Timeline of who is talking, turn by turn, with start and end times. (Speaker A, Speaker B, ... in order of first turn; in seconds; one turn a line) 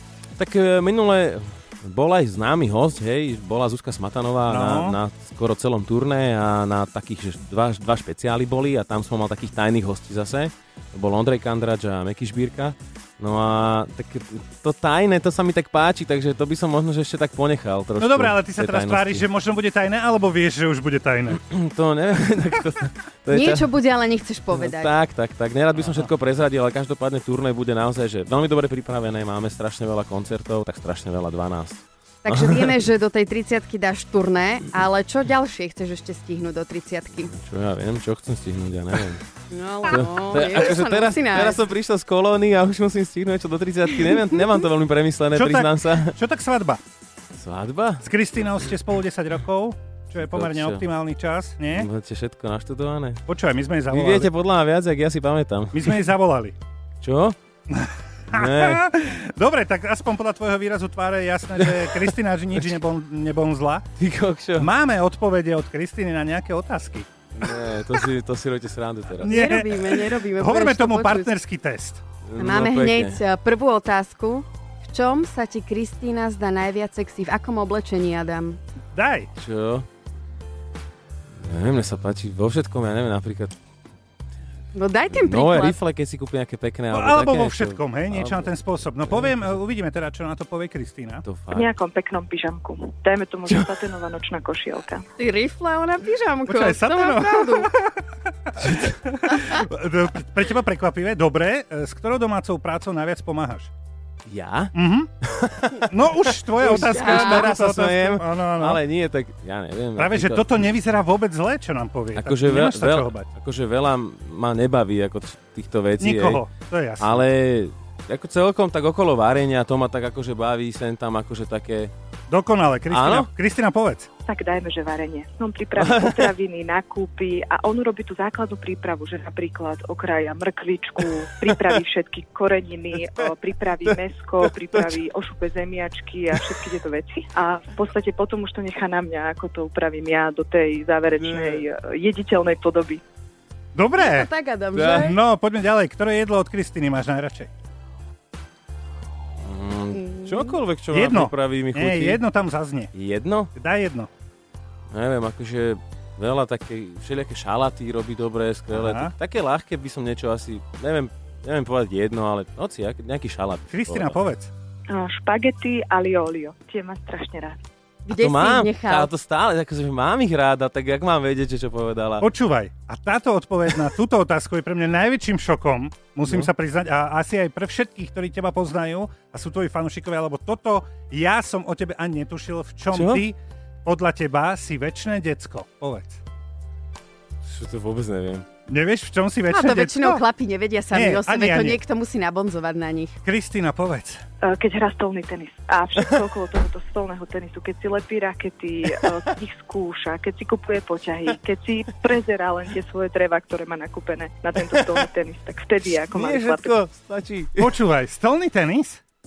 Speaker A: 0.3-19.2
Speaker B: 4.5-5.0
Speaker B: 18.0-21.4
Speaker A: 21.3-23.7
Speaker C: 23.3-24.9
Speaker A: 24.5-32.8
Speaker B: 25.8-26.1
Speaker C: 32.2-37.3
Speaker A: 37.2-39.2
Speaker C: 39.5-41.6
Speaker A: 39.8-46.2
Speaker C: 44.0-44.4
Speaker B: 45.3-46.8
Speaker A: 47.3-48.1
Speaker B: 48.0-51.9
Speaker A: 50.2-50.9
Speaker A: 51.7-53.2
Speaker B: 53.3-54.3
Speaker A: 53.9-55.9
Speaker B: 55.7-56.5
Speaker A: 57.0-57.4
Speaker B: 57.7-63.8
Speaker A: 58.3-58.8
Speaker A: 64.0-64.7
Speaker B: 64.6-68.0
Speaker A: 67.4-69.5
Speaker B: 69.1-72.0
Speaker C: 69.2-71.3
Speaker A: 72.2-73.2
Speaker C: 72.4-78.6
Speaker B: 78.9-79.3
Speaker A: 79.3-79.9
Speaker A: 81.4-83.5
Speaker C: 84.7-85.8
Speaker A: 85.1-88.5
Speaker B: 86.9-91.2
Speaker A: 91.2-91.7
Speaker D: 91.5-95.0
Speaker A: 93.5-93.8
Speaker C: 95.2-97.7
Speaker B: 96.5-103.7
Speaker A: 104.2-105.8
Speaker B: 104.7-105.1
Speaker B: 105.7-108.8
Speaker A: 106.6-110.5
Speaker C: 106.7-107.5
Speaker B: 110.0-113.3
Speaker A: 112.2-116.4
Speaker B: 116.0-117.2
Speaker A: 117.0-121.9
Speaker B: 122.3-124.1
Speaker A: 122.9-123.3
Speaker D: 124.3-143.0
Speaker A: 125.7-126.2
Speaker A: 132.9-133.3
Speaker A: 133.8-135.0
Speaker A: 141.1-141.7
Speaker B: 143.7-144.3
Speaker C: 144.0-145.2
Speaker A: 144.8-145.1
Speaker B: 144.9-147.5
Speaker A: 149.4-152.2
Speaker C: 149.9-150.6
Speaker B: 150.9-152.9
Speaker A: 152.9-153.5
Speaker B: 153.5-154.1
Speaker A: 154.9-164.2
Speaker B: 158.7-159.1
Speaker B: 163.7-164.5
Speaker D: 164.9-167.6
Speaker C: 168.1-169.1
Speaker A: 168.2-172.2
Speaker B: 172.2-186.2
Speaker A: 182.9-183.2
Speaker A: 187.4-188.4
Speaker B: 188.7-190.2
Speaker C: 189.5-193.2
Speaker B: 190.9-191.8
Speaker B: 193.2-194.2
Speaker D: 194.5-206.7
Speaker A: 204.6-205.0
Speaker A: 205.8-207.7
Speaker B: 207.6-209.0